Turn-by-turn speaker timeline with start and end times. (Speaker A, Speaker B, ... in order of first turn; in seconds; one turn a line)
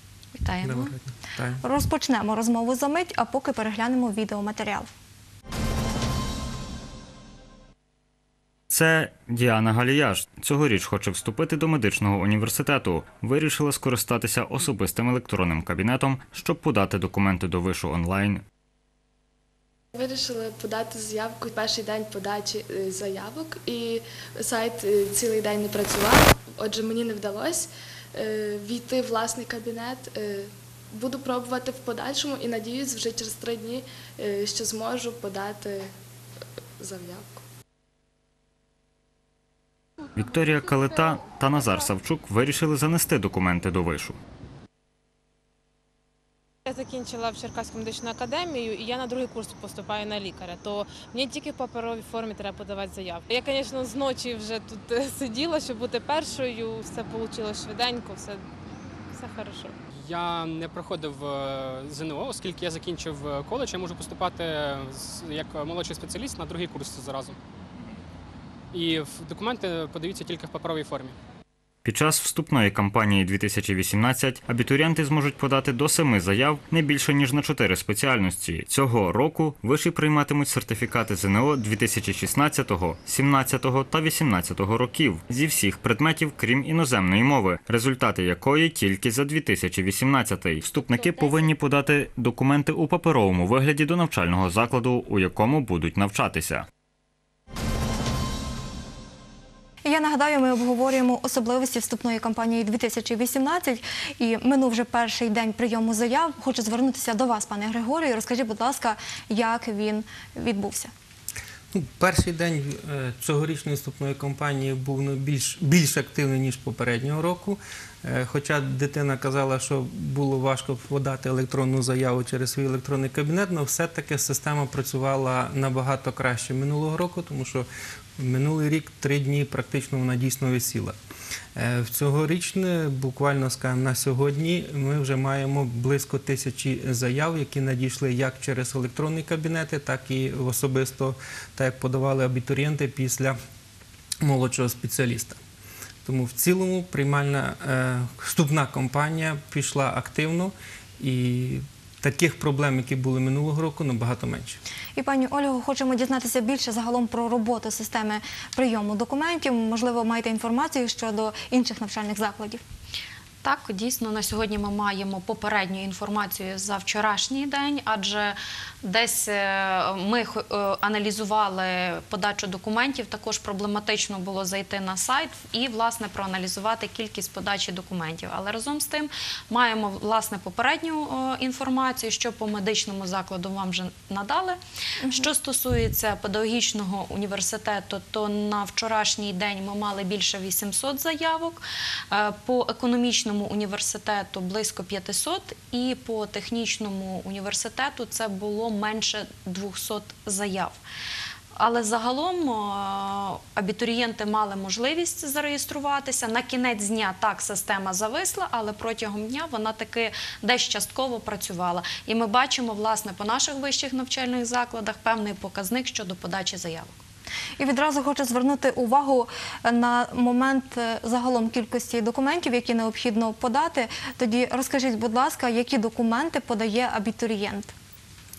Speaker A: 0.4-0.9
Speaker B: 0.6-1.6
Speaker C: 1.6-4.9
Speaker D: 8.7-18.4
Speaker E: 19.9-35.9
Speaker E: 36.8-37.4
Speaker D: 40.1-44.2
Speaker F: 46.7-58.5
Speaker F: 59.1-59.8
Speaker G: 59.9-67.4
Speaker G: 68.7-71.2
Speaker D: 71.8-96.7
Speaker C: 99.8-110.9
Speaker B: 111.7-127.7
Speaker B: 128.2-130.9
Speaker B: 131.6-143.4
Speaker B: 144.2-145.4
Speaker B: 146.1-154.6
Speaker C: 155.0-162.6
Speaker A: 163.4-200.8
Speaker A: 201.6-217.0
Speaker C: 217.6-227.7